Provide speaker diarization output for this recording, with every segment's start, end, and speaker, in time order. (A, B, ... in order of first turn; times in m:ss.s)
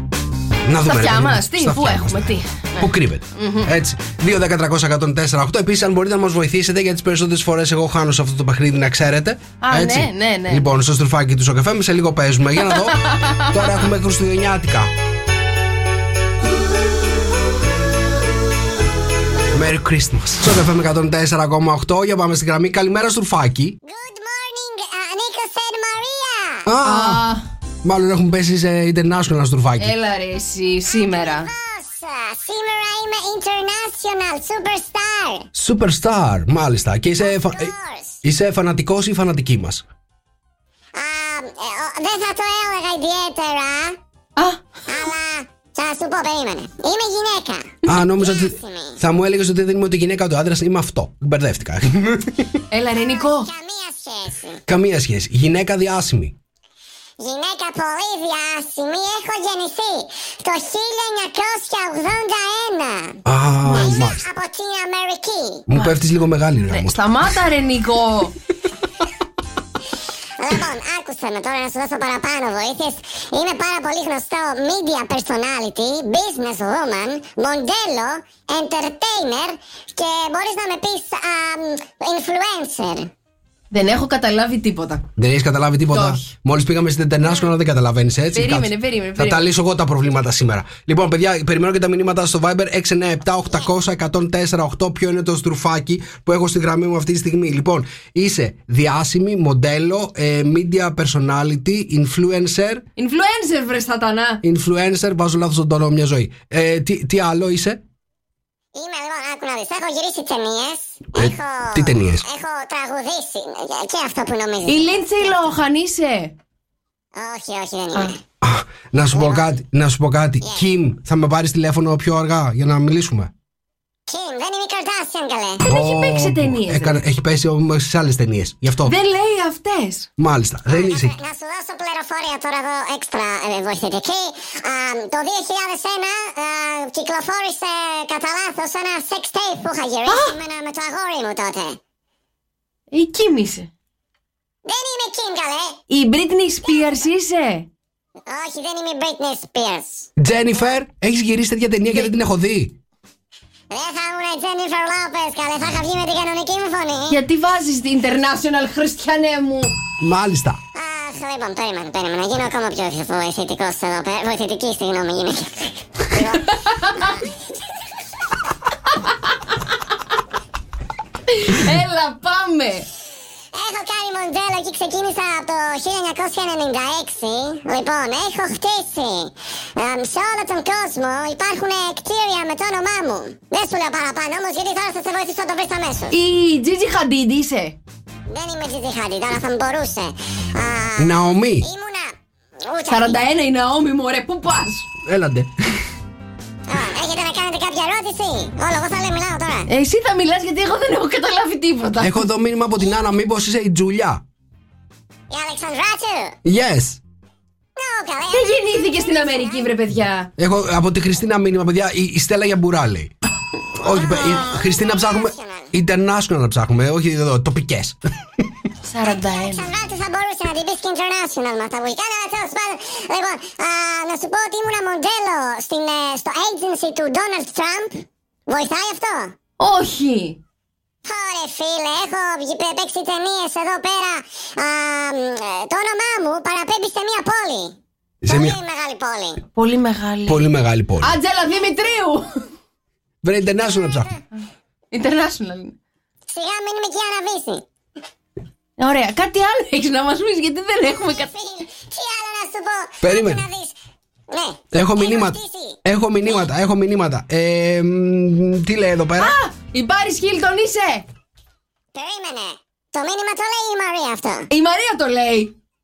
0:00.6-0:13.0 A
0:00.8-0:03.7 B
0:09.6-0:10.6 B
0:12.7-0:13.5 B
0:13.5-0:14.9 A
0:19.5-0:23.8 A
0:23.8-0:26.7 C
0:26.6-0:27.2 A
0:26.8-0:27.4 B
0:27.8-0:29.9 A
0:29.8-0:31.5 B
0:31.0-0:35.5 C
0:35.5-0:37.7 A
0:37.2-0:38.2 C
0:38.2-0:39.8 A
0:40.9-0:44.0 C
0:44.9-0:49.0 C
0:47.8-0:52.6 A
0:52.7-0:53.5 B
0:53.0-0:54.6 C
0:54.7-0:56.3 A
0:57.2-1:05.7 C
1:03.2-1:04.2 A
1:03.6-1:03.9 B
1:05.7-1:07.0 A
1:06.7-1:08.3 B
1:10.4-1:23.1 C
1:23.7-1:25.1 B
1:25.2-1:42.8 A
1:25.9-1:26.3 B
1:28.3-1:29.5 B
1:43.0-1:44.4 B
1:44.4-1:47.8 A
1:48.7-1:55.4 C
1:51.2-1:52.2 A
1:54.6-1:56.3 B
1:57.2-1:58.2 C
1:58.4-2:03.3 A
1:59.1-1:59.4 C
2:04.1-2:05.6 C
2:05.6-2:07.0 B
2:05.6-2:08.9 A
2:08.8-2:10.1 B
2:10.2-2:11.2 A
2:10.7-2:21.8 C
2:20.0-2:20.4 B
2:22.9-2:23.7 B
2:24.6-2:25.8 C
2:25.9-2:27.7 B
2:28.3-2:30.1 C
2:30.2-2:32.7 A
2:33.7-2:37.2 C
2:37.1-2:39.7 B
2:40.0-2:40.6 A
2:40.7-2:47.0 C
2:46.7-2:47.1 B
2:51.3-2:52.9 B
2:53.5-3:06.2 C
3:06.1-3:07.8 B
3:08.3-3:12.1 C
3:11.0-3:11.6 A
3:12.7-3:13.2 C
3:12.9-3:14.9 B
3:15.0-3:15.5 A
3:16.7-3:19.7 C
3:19.7-3:22.2 B
3:22.0-3:24.2 A
3:25.3-3:26.4 C
3:26.4-3:27.0 A
3:27.8-3:29.7 C
3:28.3-3:30.3 B
3:30.4-3:33.1 A
3:33.8-3:38.0 A
3:33.8-3:35.7 C
3:38.8-3:39.7 B
3:39.3-3:49.3 C
3:49.6-3:50.4 B
3:51.0-3:57.7 C
3:58.2-3:58.6 A
3:58.2-3:59.4 C
3:59.5-4:00.4 B
4:00.3-4:01.2 A
4:01.0-4:02.3 B
4:03.2-4:04.1 A
4:04.9-4:05.7 B
4:06.3-4:07.6 C
4:08.8-4:11.3 B
4:11.2-4:13.7 C
4:13.0-4:13.4 A
4:14.3-4:15.8 C
4:14.7-4:19.4 A
4:19.2-4:21.0 B
4:21.9-4:24.5 C
4:24.5-4:25.5 B